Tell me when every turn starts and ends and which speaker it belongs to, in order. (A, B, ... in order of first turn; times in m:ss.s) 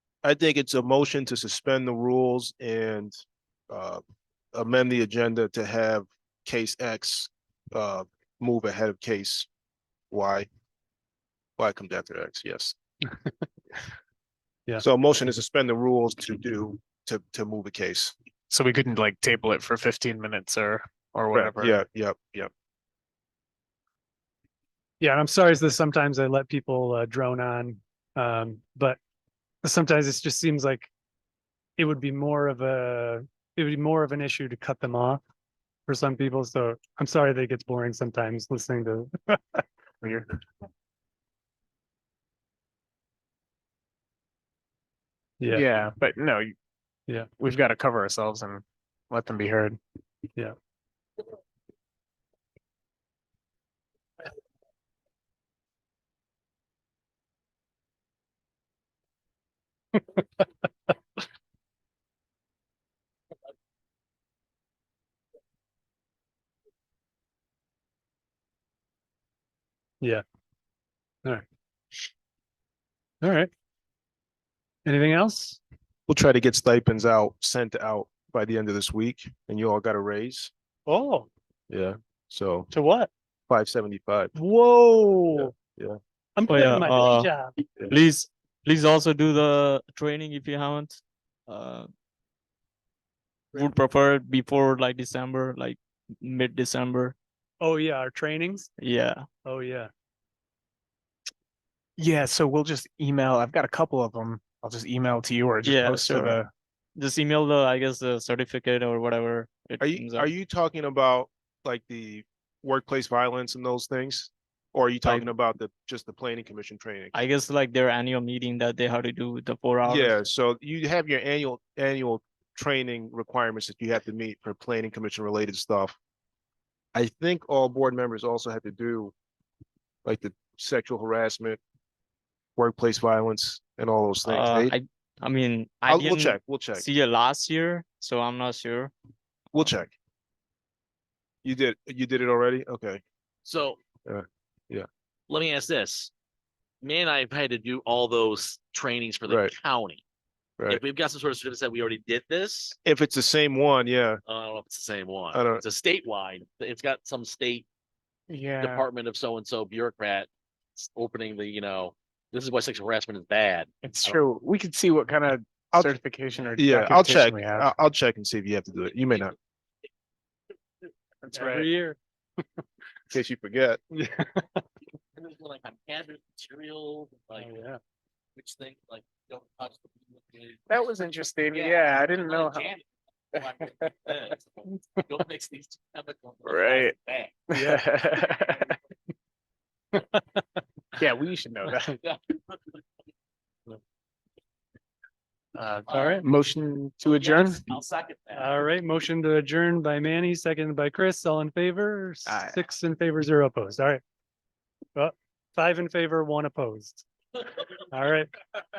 0:00.2-0:04.0 A
0:04.5-0:09.5 A
0:10.1-0:10.5 A
0:11.6-0:12.8 A
0:13.1-0:13.4 B
0:14.8-0:18.1 A
0:18.5-0:21.8 C
0:21.3-0:22.5 A
0:25.0-0:29.0 B
0:29.6-0:30.9 B
0:31.8-0:35.2 B
0:35.9-0:39.6 B
0:40.0-0:40.4 C
0:45.4-0:45.7 B
0:45.5-0:46.6 C
0:47.4-0:49.8 C
0:59.9-1:00.5 B
1:13.2-1:13.5 B
1:14.8-1:15.6 B
1:16.1-1:20.5 A
1:20.8-1:21.3 B
1:21.7-1:22.7 A
1:22.7-1:23.1 B
1:23.5-1:24.3 A
1:24.4-1:25.5 B
1:25.3-1:26.0 A
1:26.4-1:27.5 B
1:26.5-1:31.9 D
1:33.5-1:37.2 D
1:37.6-1:38.7 B
1:38.8-1:39.2 D
1:39.4-1:39.9 B
1:42.0-1:46.5 C
1:45.6-1:46.4 D
1:47.0-1:50.3 D
1:49.8-1:57.2 A
1:57.1-2:00.2 D
1:59.8-2:06.0 A
2:06.9-2:09.1 A
2:10.0-2:11.6 A
2:12.6-2:14.8 A
2:14.2-2:18.9 D
2:15.9-2:16.8 A
2:19.5-2:19.9 A
2:21.4-2:23.0 A
2:23.4-2:23.8 E
2:24.0-2:24.9 A
2:25.3-2:26.1 E
2:26.8-2:30.0 E
2:29.3-2:29.5 A
2:30.7-2:32.8 E
2:32.8-2:34.2 A
2:34.2-2:37.7 E
2:35.3-2:35.6 A
2:38.3-2:38.8 C
2:38.6-2:44.2 E
2:43.8-2:47.7 C
2:46.6-2:49.3 A
2:48.9-2:49.3 E
2:51.2-2:51.7 E
2:51.3-2:52.6 B
2:53.1-2:53.8 A
2:53.9-2:54.6 B
2:55.2-2:57.6 E
2:57.4-2:57.8 B
2:58.4-3:00.7 E
3:00.7-3:02.7 C
3:01.5-3:07.4 E
3:06.4-3:06.9 C
3:07.5-3:08.8 C
3:10.0-3:10.4 B
3:11.0-3:12.0 C
3:12.0-3:12.6 E
3:15.5-3:17.6 C
3:15.9-3:16.2 E
3:17.0-3:18.7 E
3:18.3-3:24.0 B
3:22.3-3:22.6 C
3:24.9-3:27.0 B
3:27.9-3:28.3 B